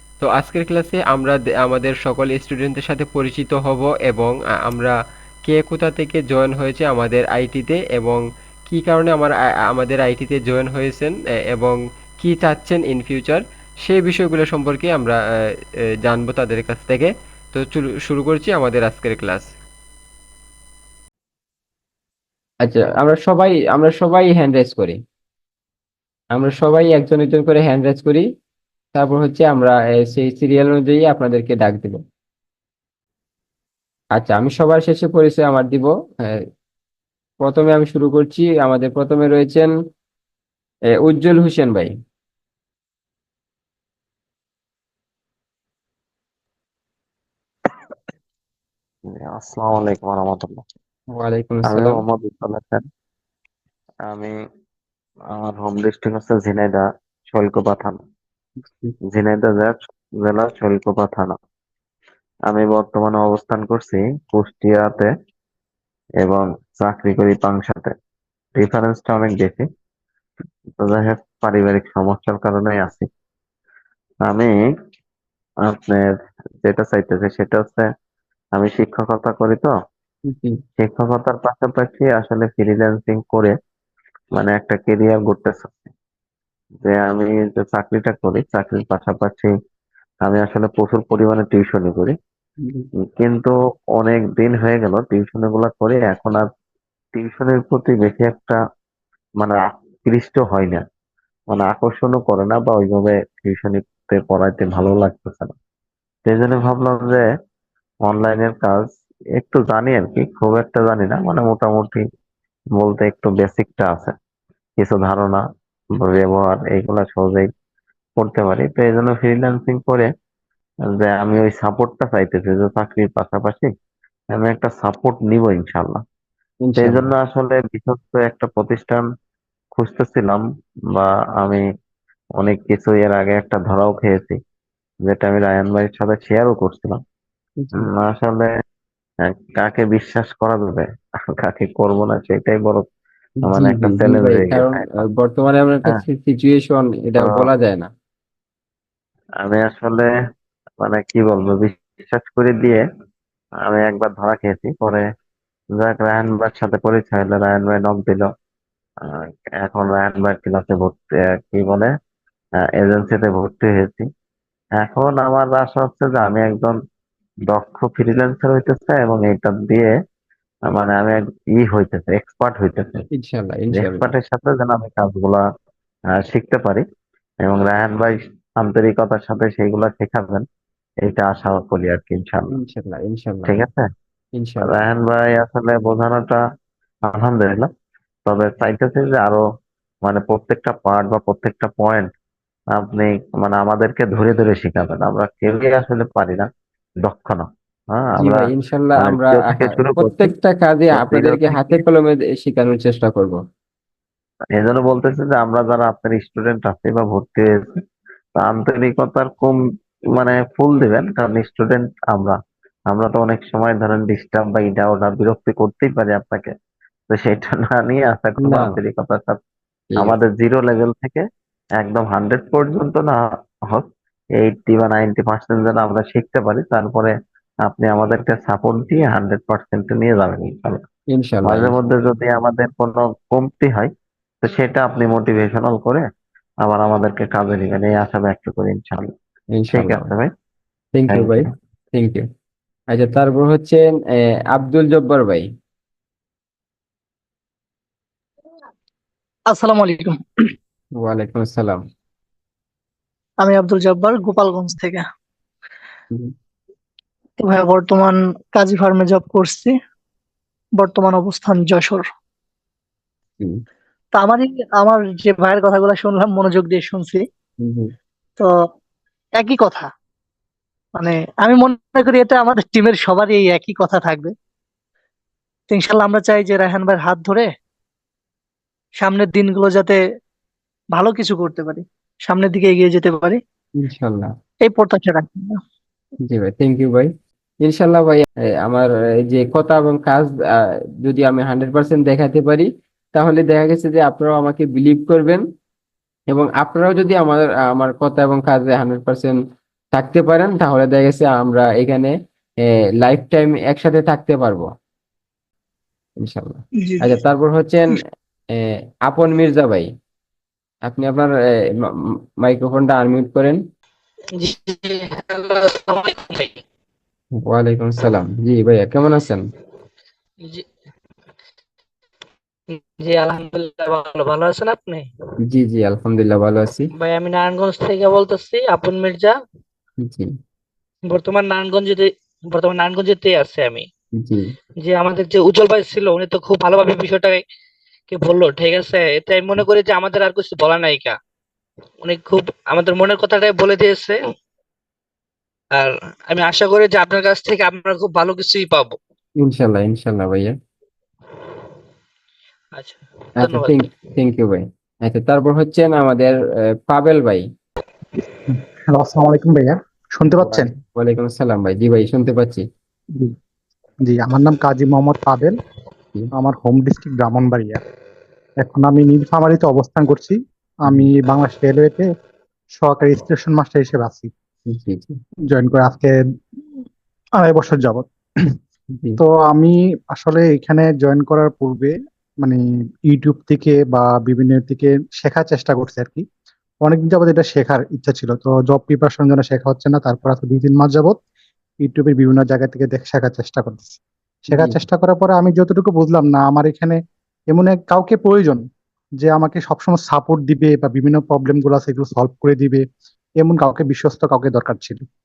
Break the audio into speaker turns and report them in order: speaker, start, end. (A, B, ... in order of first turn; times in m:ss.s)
0:00.2-0:15.2 A
0:16.0-0:19.5 A
0:22.6-0:25.0 A
0:26.3-0:28.2 A
0:28.9-0:32.0 A
0:34.1-0:36.4 A
0:37.4-0:39.7 A
0:40.9-0:41.9 A
0:49.1-0:50.6 B
0:51.1-0:52.0 A
0:51.7-0:52.8 B
0:54.1-0:54.3 B
0:55.3-0:58.0 B
0:58.7-0:58.9 A
0:59.1-1:01.3 B
1:02.5-1:05.1 B
1:06.2-1:07.9 B
1:08.6-1:09.6 B
1:10.8-1:13.1 B
1:14.2-1:14.7 B
1:15.7-1:16.0 B
1:16.6-1:17.9 B
1:18.5-1:19.7 B
1:20.3-1:20.6 A
1:20.8-1:23.5 B
1:24.4-1:25.9 B
1:26.8-1:29.5 B
1:30.2-1:32.2 B
1:32.6-1:32.8 A
1:33.2-1:36.4 B
1:37.2-1:38.6 B
1:39.4-1:40.8 B
1:41.5-1:45.5 B
1:46.2-1:47.2 B
1:48.0-1:52.0 B
1:52.8-1:54.1 B
1:54.8-1:55.4 B
1:56.0-1:57.5 B
1:58.2-2:00.1 B
2:01.0-2:03.7 B
2:04.3-2:06.0 B
2:06.6-2:07.1 A
2:06.8-2:09.0 B
2:09.7-2:10.4 B
2:10.9-2:11.6 B
2:12.4-2:14.4 B
2:15.0-2:17.0 B
2:17.6-2:17.9 A
2:17.8-2:18.5 B
2:19.2-2:20.9 B
2:21.4-2:22.8 B
2:23.4-2:27.9 A
2:23.4-2:24.7 B
2:29.4-2:30.1 B
2:30.8-2:32.8 B
2:33.6-2:35.0 B
2:35.8-2:38.3 B
2:39.6-2:41.9 B
2:42.8-2:44.1 B
2:44.8-2:46.7 B
2:47.5-2:49.9 B
2:50.7-2:53.0 B
2:53.1-2:54.1 A
2:53.7-2:55.4 B
2:56.1-2:56.8 B
2:57.4-3:00.4 B
3:01.0-3:02.5 B
3:02.5-3:03.6 A
3:03.5-3:03.9 B
3:04.4-3:04.8 A
3:04.6-3:06.4 B
3:07.1-3:07.7 B
3:08.2-3:09.4 B
3:10.0-3:12.1 B
3:12.7-3:16.5 B
3:17.0-3:20.3 B
3:18.2-3:23.4 A
3:20.9-3:21.8 B
3:24.6-3:27.8 B
3:28.4-3:29.6 B
3:30.1-3:32.4 B
3:32.9-3:36.5 B
3:37.1-3:39.4 B
3:38.4-3:38.8 A
3:40.0-3:41.2 B
3:41.8-3:43.8 B
3:44.4-3:47.1 B
3:47.6-3:50.8 B
3:51.1-3:51.8 A
3:51.4-3:53.9 B
3:54.4-3:56.0 B
3:56.6-3:59.1 B
3:59.5-4:00.1 A
3:59.7-4:00.3 B
4:00.9-4:02.2 A
4:01.1-4:01.4 B
4:02.9-4:03.8 A
4:04.5-4:05.4 A
4:09.5-4:10.2 C
4:11.0-4:11.8 A
4:13.4-4:15.0 C
4:17.4-4:19.8 C
4:20.8-4:22.1 C
4:24.1-4:27.2 C
4:27.6-4:27.9 A
4:29.3-4:29.9 C
4:30.9-4:34.3 C
4:35.7-4:37.5 C
4:39.0-4:40.0 C
4:40.9-4:43.4 C
4:43.8-4:44.3 A
4:44.6-4:45.6 C
4:46.3-4:47.1 A
4:47.6-4:50.4 A
4:51.0-4:55.4 A
4:56.3-4:59.4 A
4:59.9-5:02.1 A
5:03.0-5:04.7 A
5:06.2-5:08.0 A
5:08.5-5:09.9 A
5:10.8-5:11.3 A
5:12.4-5:13.6 A
5:14.4-5:16.6 D
5:17.3-5:19.4 A
5:22.7-5:25.1 D
5:25.4-5:26.9 A
5:26.9-5:29.4 D
5:30.0-5:30.3 A
5:31.1-5:33.9 D
5:34.2-5:34.5 A
5:34.8-5:37.4 D
5:38.1-5:41.2 D
5:42.0-5:44.3 D
5:45.7-5:49.0 D
5:49.4-5:50.5 A
5:52.7-5:53.8 D
5:53.4-5:57.4 A
5:58.9-6:00.7 E
6:00.4-6:02.6 A
6:04.0-6:05.5 E
6:06.3-6:07.8 E
6:08.6-6:12.1 E
6:12.8-6:14.3 E
6:14.7-6:15.2 A
6:15.5-6:16.1 E
6:17.4-6:18.0 E
6:18.9-6:19.2 A
6:19.2-6:26.2 E
6:26.8-6:31.2 E
6:31.8-6:37.0 E
6:34.5-6:34.8 A
6:37.5-6:38.6 E
6:39.2-6:42.8 E
6:43.4-6:45.0 E